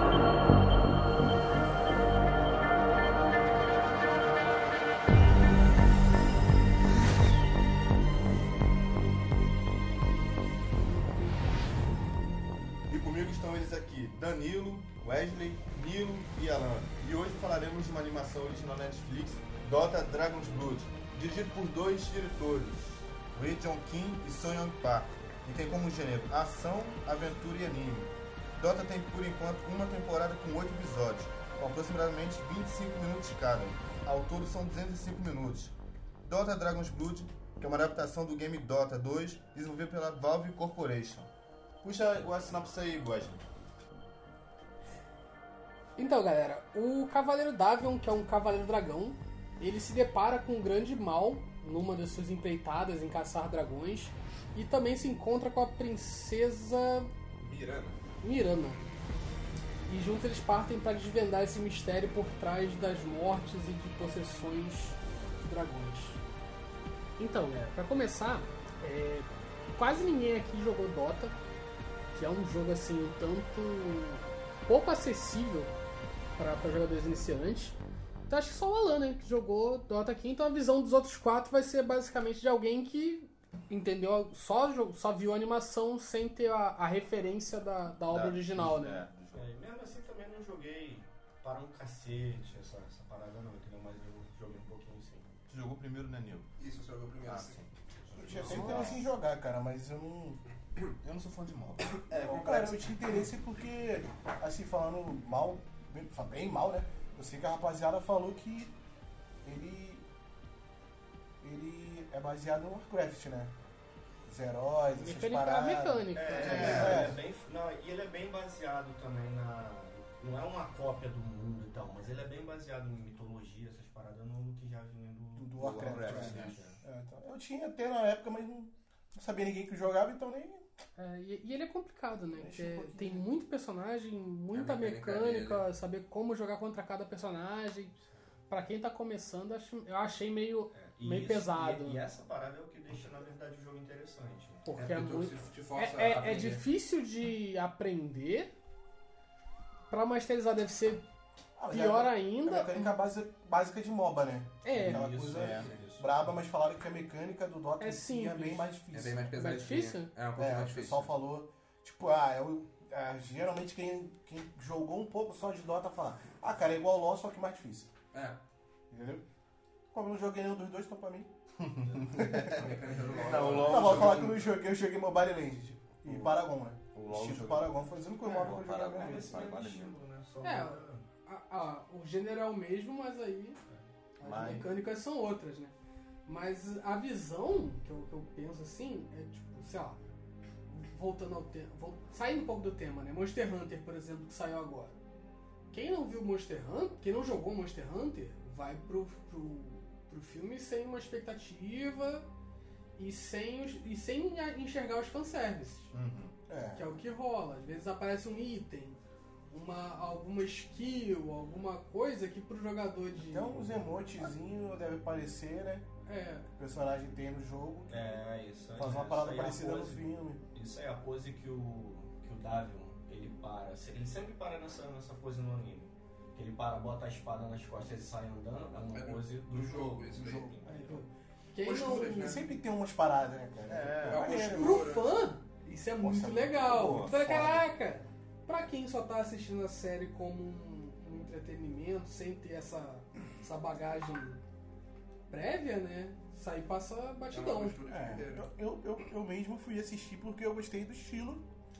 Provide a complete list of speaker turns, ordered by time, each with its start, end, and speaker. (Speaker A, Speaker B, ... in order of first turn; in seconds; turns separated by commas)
Speaker A: 12.9-41.3, Speaker A: 41.8-43.4, Speaker B: 46.0-57.1, Speaker C: 57.4-58.0, Speaker B: 58.2-58.8, Speaker B: 59.9-66.2, Speaker B: 67.2-69.3, Speaker B: 69.8-71.3, Speaker B: 72.1-75.7, Speaker B: 76.4-77.8, Speaker B: 78.3-89.0, Speaker A: 88.0-89.5, Speaker D: 89.3-95.3, Speaker A: 95.5-96.5, Speaker C: 96.6-97.6, Speaker A: 97.2-99.0, Speaker D: 98.1-99.0, Speaker E: 98.2-100.4, Speaker A: 101.0-102.0, Speaker C: 102.0-103.1, Speaker E: 102.2-108.7, Speaker E: 109.4-110.0, Speaker E: 111.4-113.5, Speaker E: 114.3-117.2, Speaker B: 115.0-116.7, Speaker D: 116.1-126.8, Speaker A: 116.3-117.2, Speaker E: 125.4-130.7, Speaker A: 125.6-126.6, Speaker B: 131.0-137.9, Speaker E: 132.4-133.3, Speaker C: 134.5-135.7, Speaker B: 138.5-142.0, Speaker D: 140.7-144.7, Speaker B: 144.7-148.5, Speaker C: 144.8-146.6, Speaker B: 149.9-151.0, Speaker E: 151.6-159.3, Speaker B: 151.7-153.0, Speaker B: 154.6-155.1, Speaker D: 154.7-156.4, Speaker A: 155.3-155.7, Speaker B: 157.8-158.7, Speaker C: 158.9-161.1, Speaker B: 159.3-160.1, Speaker E: 160.4-167.9, Speaker C: 168.1-168.4, Speaker E: 168.9-169.2, Speaker E: 169.9-171.3, Speaker A: 171.8-174.5, Speaker D: 171.9-172.2, Speaker E: 172.1-172.7, Speaker C: 172.4-174.3, Speaker D: 173.2-173.7, Speaker E: 173.6-179.4, Speaker A: 176.0-180.0, Speaker B: 178.2-178.5, Speaker D: 178.7-181.1, Speaker B: 180.4-183.6, Speaker B: 184.2-185.7, Speaker A: 184.2-184.7, Speaker B: 186.3-190.0, Speaker B: 190.7-194.9, Speaker B: 195.7-202.3, Speaker B: 203.0-205.9, Speaker A: 205.9-206.3, Speaker E: 206.5-207.0, Speaker B: 206.8-213.8, Speaker E: 213.3-215.9, Speaker B: 216.1-216.5, Speaker E: 216.6-218.2, Speaker D: 217.9-231.1, Speaker E: 218.8-220.4, Speaker C: 228.9-230.5, Speaker B: 230.7-232.4, Speaker C: 231.6-232.5, Speaker E: 231.7-234.8, Speaker A: 233.7-234.5, Speaker C: 234.1-235.3, Speaker B: 234.6-244.4, Speaker E: 236.0-237.7, Speaker A: 236.6-237.2, Speaker B: 245.3-247.8, Speaker C: 247.3-248.5, Speaker E: 247.9-251.4